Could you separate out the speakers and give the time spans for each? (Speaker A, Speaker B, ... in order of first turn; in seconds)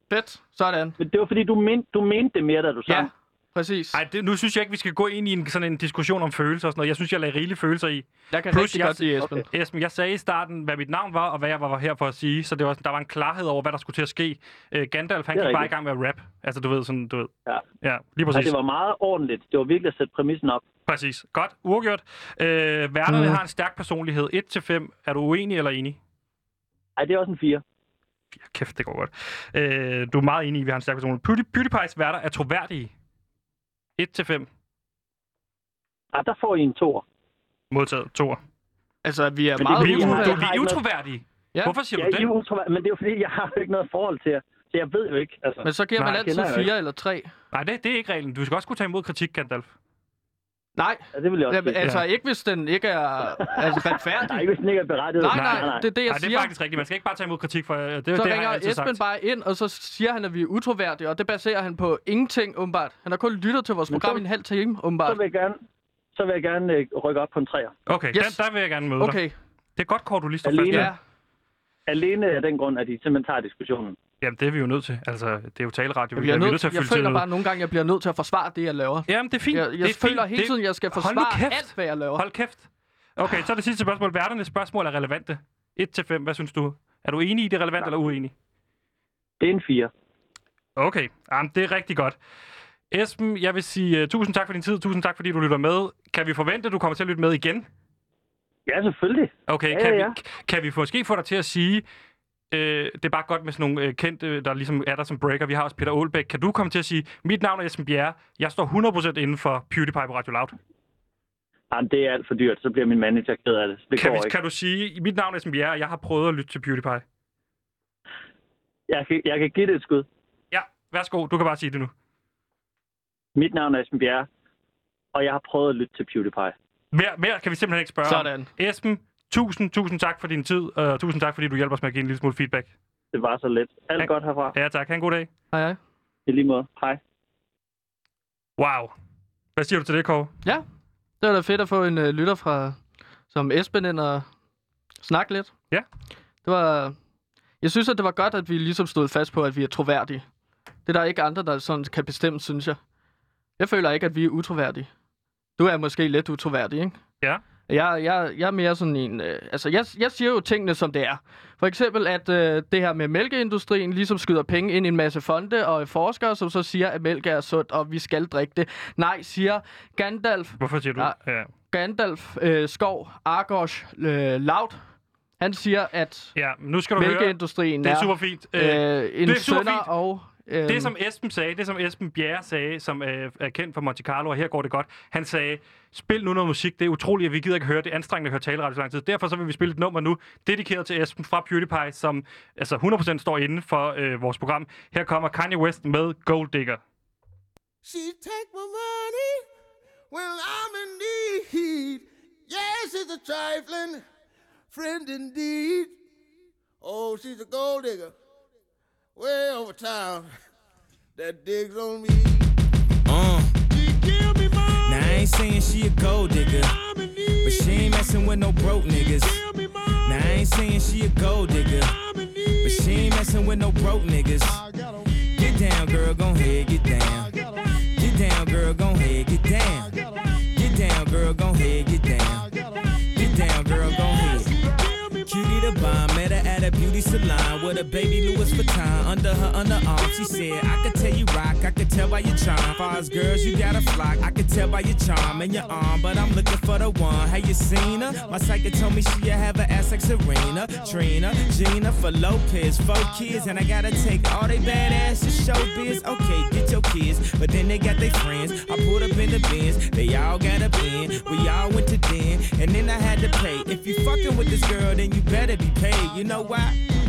Speaker A: 0.1-1.0, 2.9-4.0, 8.3-9.4, 23.1-23.4, 39.0-40.5, 45.6-47.3, 50.8-54.5, 55.2-56.5, 58.1-65.2, 68.1-68.4, 69.0-69.3, 70.7-71.0, 76.2-82.2, 128.1-128.5, 135.5-135.8, 141.2-142.8, 143.3-144.3, 145.0-145.5, 146.4-146.9, 147.6-150.2, 150.9-152.8, 153.6-154.9, 155.6-157.0, 157.7-171.1, 171.7-174.8, 175.4-176.3, 177.0-180.9
Speaker B: 1.0-3.1, 15.3-15.7, 18.3-20.6, 27.0-27.6, 36.1-37.0, 39.6-40.8, 42.0-46.7, 51.1-51.8, 53.4-55.9, 63.9-64.2, 65.0-65.6, 66.1-67.7, 70.4-70.9, 71.9-74.0, 89.4-89.9, 98.7-100.1, 111.7-114.3, 118.9-120.1, 123.4-124.3, 125.1-126.5, 133.1-134.6, 136.3-137.0
Speaker C: 3.9-18.5, 20.9-26.0, 28.4-32.9, 34.0-34.5, 37.7-38.4, 39.7-42.3, 47.5-49.7, 55.3-59.0, 67.9-69.2, 69.8-70.9, 74.2-77.3, 79.1-82.6, 83.2-88.3, 90.8-92.2, 92.9-97.7, 99.5-101.8, 102.5-110.5, 114.0-117.0, 120.5-121.9, 126.9-132.7, 134.0-135.3, 138.6-138.9, 139.6-140.3, 170.6-171.5, 176.3-179.9, 180.7-196.8
Speaker D: 197.8-199.2, 200.1-203.9, 204.7-205.9, 206.8-208.1, 209.2-210.2, 211.2-212.5, 213.7-215.3, 216.7-218.1, 219.2-220.4, 221.8-223.1, 232.6-232.9, 234.0-236.0
Speaker E: 213.1-213.6, 214.9-216.7, 217.4-219.4, 220.0-221.9, 222.6-224.6, 225.3-227.3, 227.9-232.5, 233.1-234.5, 235.2-266.8